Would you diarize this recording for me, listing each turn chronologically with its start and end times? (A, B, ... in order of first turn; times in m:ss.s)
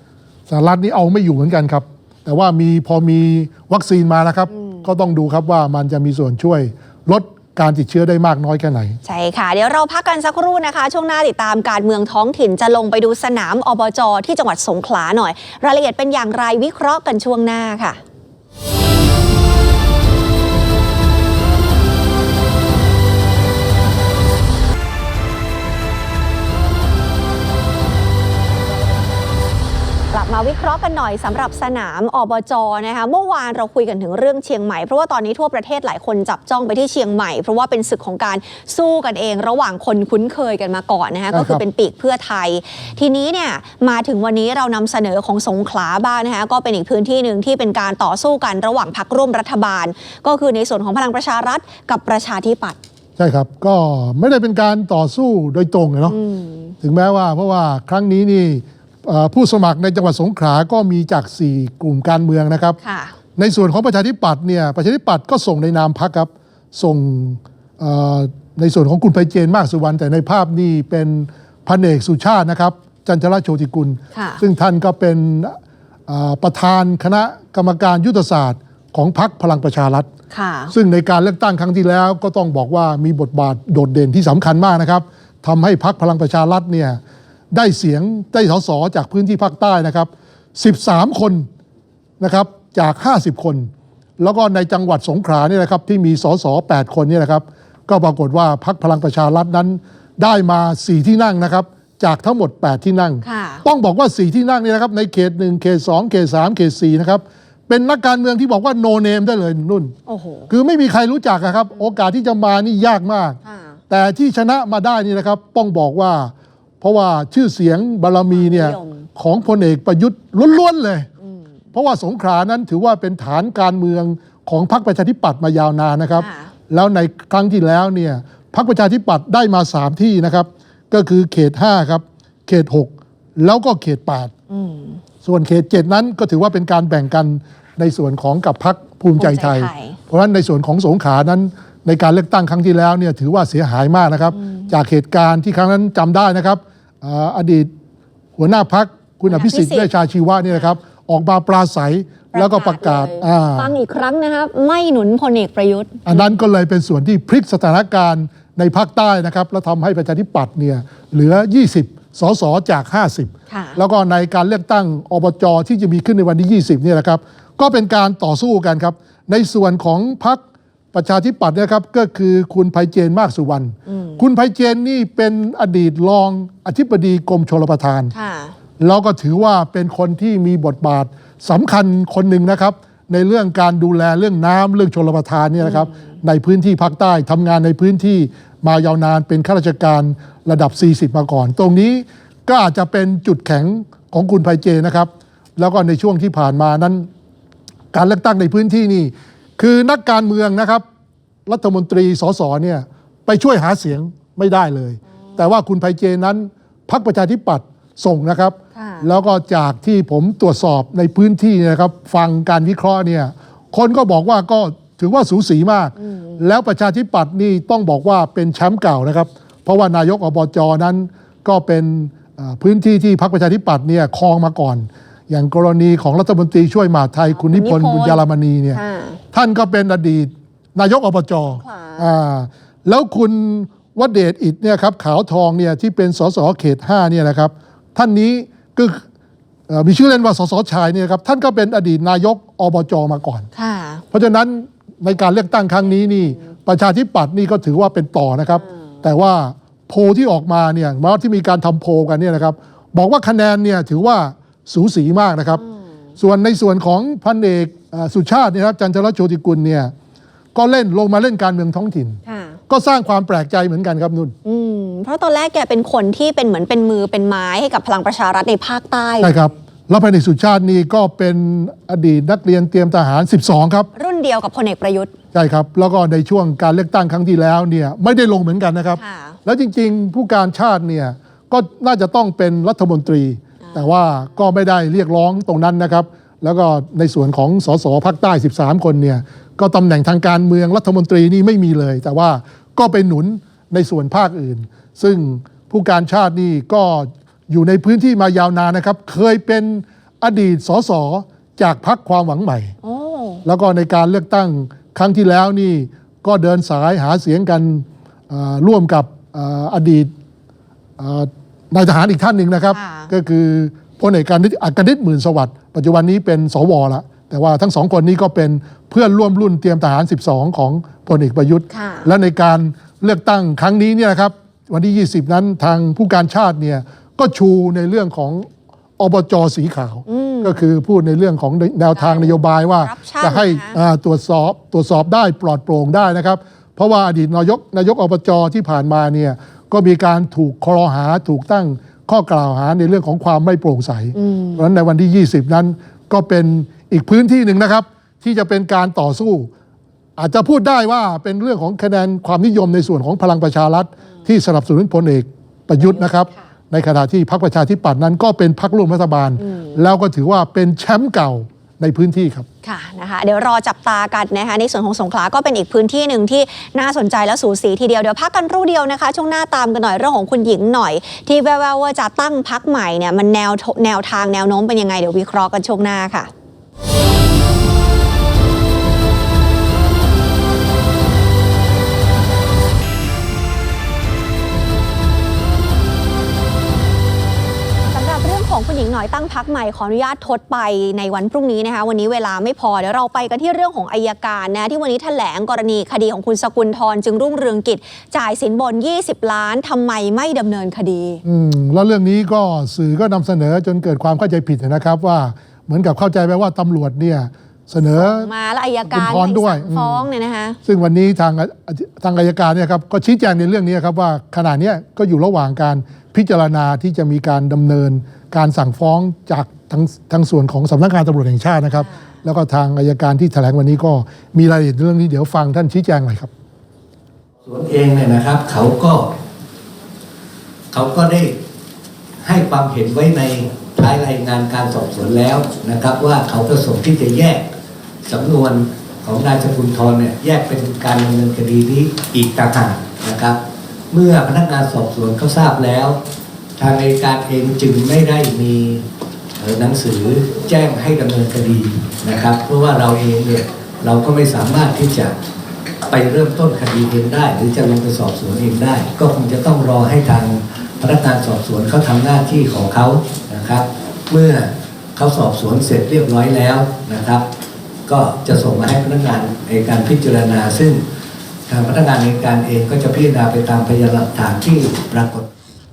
0:00.5-0:09.0 A
0:04.5-0:04.8 B
0:09.0-0:18.0 B
0:30.1-0:52.8 B
0:41.3-0:41.6 A
0:53.2-0:56.2 A
0:56.1-0:56.7 B
0:56.8-1:02.8 A
1:02.8-1:03.1 B
1:03.4-1:15.6 A
1:14.1-1:14.4 B
1:16.1-1:20.1 A
1:20.3-1:20.7 B
1:20.7-1:27.0 A
1:27.5-1:31.5 A
1:32.2-1:49.9 A
1:43.2-1:43.6 B
1:50.1-1:50.5 B
1:50.5-1:53.4 A
1:53.4-1:53.8 B
1:53.9-2:01.1 A
1:58.3-1:59.1 B
2:01.7-2:14.3 A
2:06.2-2:06.5 B
2:14.5-2:15.0 B
2:15.2-2:27.7 A
2:19.2-2:20.0 B
2:24.3-2:24.7 B
2:28.4-2:33.7 A
2:29.3-2:29.9 B
2:32.3-2:36.3 B
2:36.0-2:58.1 A
2:43.5-2:43.8 B
2:53.9-2:54.2 B
2:58.1-2:58.5 B
2:58.8-3:17.1 A
3:05.6-3:06.1 B
3:17.9-3:20.8 A
3:21.4-3:48.8 A
3:28.8-3:29.0 B
3:36.0-3:36.4 B
3:47.4-3:48.2 B
3:48.7-3:49.2 B
3:49.3-3:59.0 A
3:51.6-3:52.0 B
3:59.7-4:03.5 A
4:03.5-4:04.0 B
4:04.1-4:15.6 A
4:16.2-4:19.9 A
4:20.5-4:24.3 A
4:22.2-4:22.6 B
4:24.4-4:29.4 B
4:29.2-4:33.9 A
4:34.0-4:35.1 B
4:35.3-5:02.7 A
4:39.0-4:39.4 B
5:02.8-5:03.4 B
5:03.4-5:10.1 A
5:11.0-5:28.5 A
5:12.7-5:13.1 B
5:21.7-5:22.1 B
5:29.0-5:49.5 A
5:30.1-5:30.6 B
5:32.0-5:33.8 B
5:44.2-5:44.6 B
5:50.2-6:02.5 A
5:59.4-5:59.7 B
6:02.6-6:16.3 B
6:27.9-6:41.2 B
6:41.2-6:48.3 A
6:48.0-6:50.6 B
6:48.9-6:50.0 A
6:50.6-7:06.3 A
7:07.4-7:09.1 C
7:10.7-7:11.4 C
7:12.2-7:17.5 C
7:18.0-7:23.4 C
7:23.9-7:26.0 C
7:26.6-7:28.8 C
7:29.4-7:35.2 C
7:35.9-7:47.2 C
7:47.9-7:50.8 C
7:51.5-7:55.2 C